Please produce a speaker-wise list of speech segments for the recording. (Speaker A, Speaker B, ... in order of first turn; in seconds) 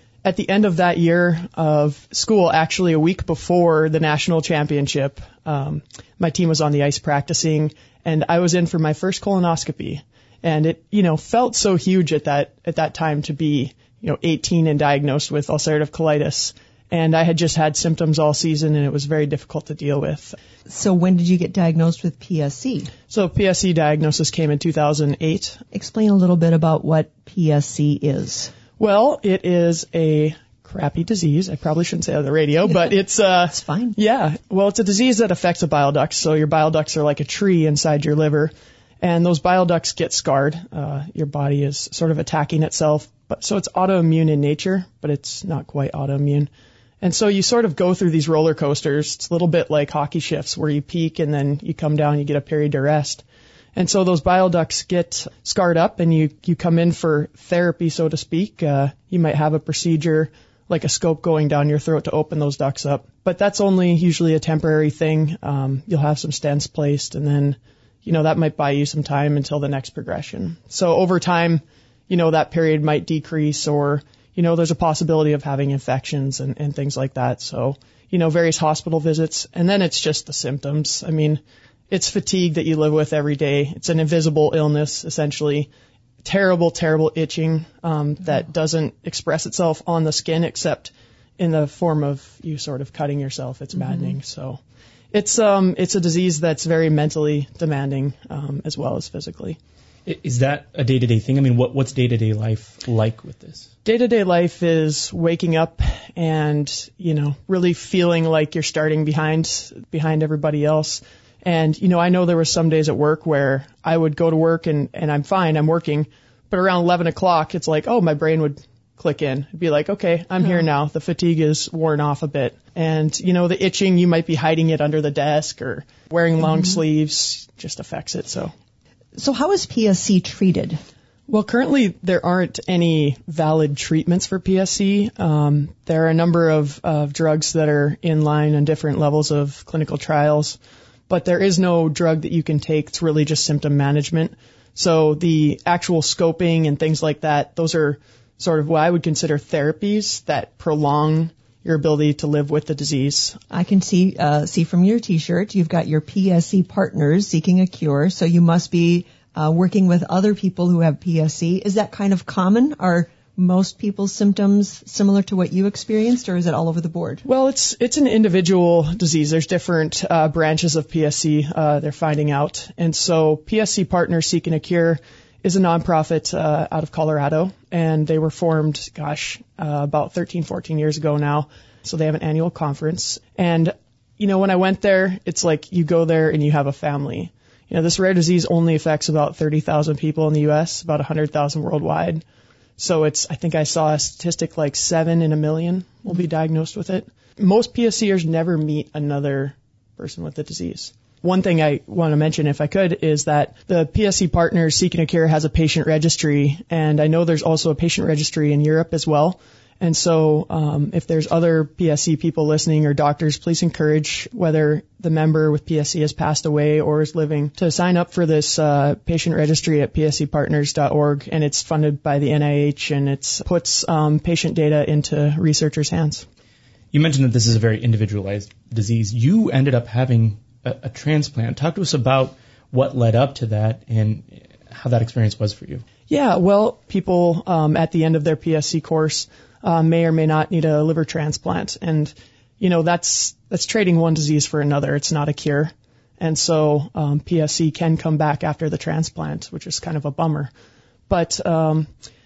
Speaker A: 0.2-20.4, 23.1-25.6, 28.8-46.5, 47.0-53.2, 53.7-85.7, 86.2-94.6, 95.1-99.6, 103.8-128.5, 131.3-140.6, 141.1-153.4, 167.2-192.2, 192.8-226.2, 236.1-250.5, 251.1-251.9
Speaker B: 20.7-22.9, 25.7-28.5, 33.5-34.0, 129.2-130.8, 153.5-167.2
Speaker C: 100.0-103.7, 226.9-235.8